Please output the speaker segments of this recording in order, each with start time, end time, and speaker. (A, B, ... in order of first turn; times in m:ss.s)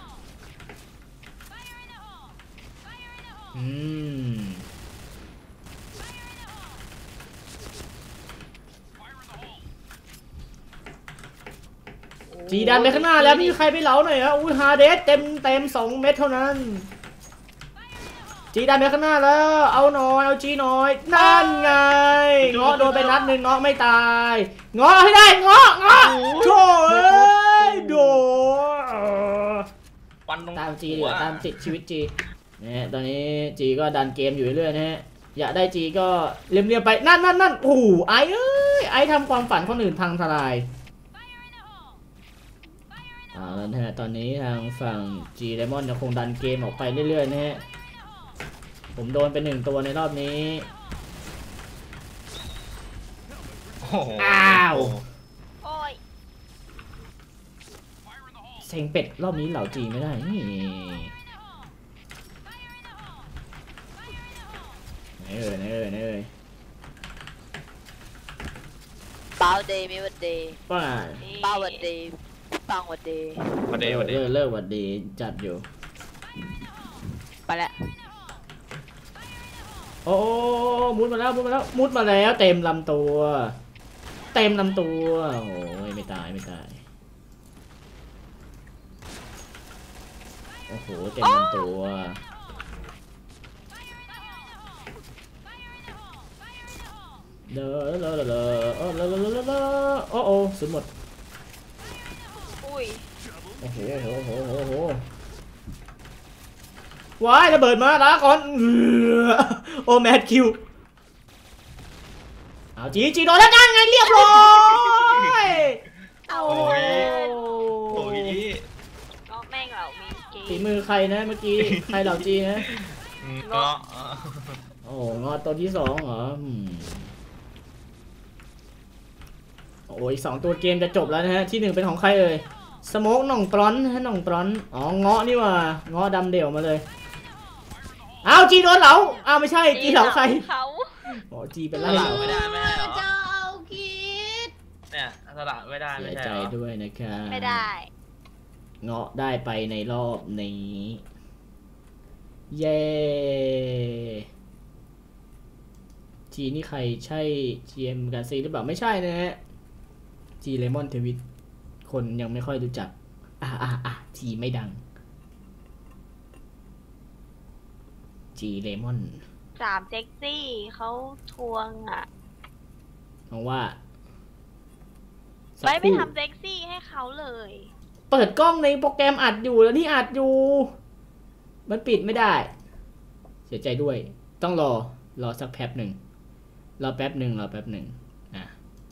0:03.5-0:04.6 A
0:12.3-0:13.6 B
0:12.5-0:16.9 A
0:18.5-0:29.7 A
0:21.2-0:21.8 B
0:22.4-0:23.3 C
0:25.9-0:28.2 C
0:30.3-0:31.5 C
0:30.6-0:40.7 A
0:43.3-0:47.6 A
0:49.0-0:50.7 A
0:53.8-0:55.0 C
0:54.2-0:55.0 A
0:55.6-0:56.0 B
0:58.6-1:01.1 A
1:05.2-1:06.3 A
1:09.4-1:10.6 D
1:10.7-1:11.2 A
1:11.2-1:11.9 B
1:11.4-1:13.6 D
1:13.7-1:14.2 C
1:13.8-1:15.7 A
1:17.5-1:17.8 D
1:20.1-1:23.6 A
1:24.3-1:26.8 A
1:30.7-1:32.2 A
1:31.2-1:31.7 B
1:37.5-1:40.9 A
1:42.6-1:43.0 B
1:43.6-1:45.0 A
1:47.2-1:50.6 A
1:52.8-1:58.4 A
1:54.4-1:55.3 C
1:56.3-1:57.5 B
1:56.5-1:57.1 C
1:57.9-1:58.7 C
1:59.3-2:00.7 B
2:00.5-2:02.7 A
2:01.6-2:04.6 C
2:03.4-2:03.7 B
2:04.8-2:07.1 A
2:09.9-2:16.8 A
2:18.2-2:20.4 A
2:19.7-2:21.1 B
2:21.1-2:22.4 A
2:21.8-2:24.5 E
2:21.8-2:23.1 C
2:24.9-2:26.5 C
2:26.0-2:27.7 A
2:27.3-2:27.9 B
2:28.8-2:31.0 A
2:32.5-2:34.2 A
2:36.3-2:39.4 A
2:40.4-2:41.2 A
2:41.8-2:44.8 A
2:48.4-2:49.2 A
2:49.6-2:52.1 B
2:53.3-2:53.8 A
2:55.6-2:56.1 A
2:55.6-2:57.7 B
2:58.1-3:00.7 A
3:01.7-3:02.5 A
3:03.5-3:06.0 A
3:06.8-3:08.6 A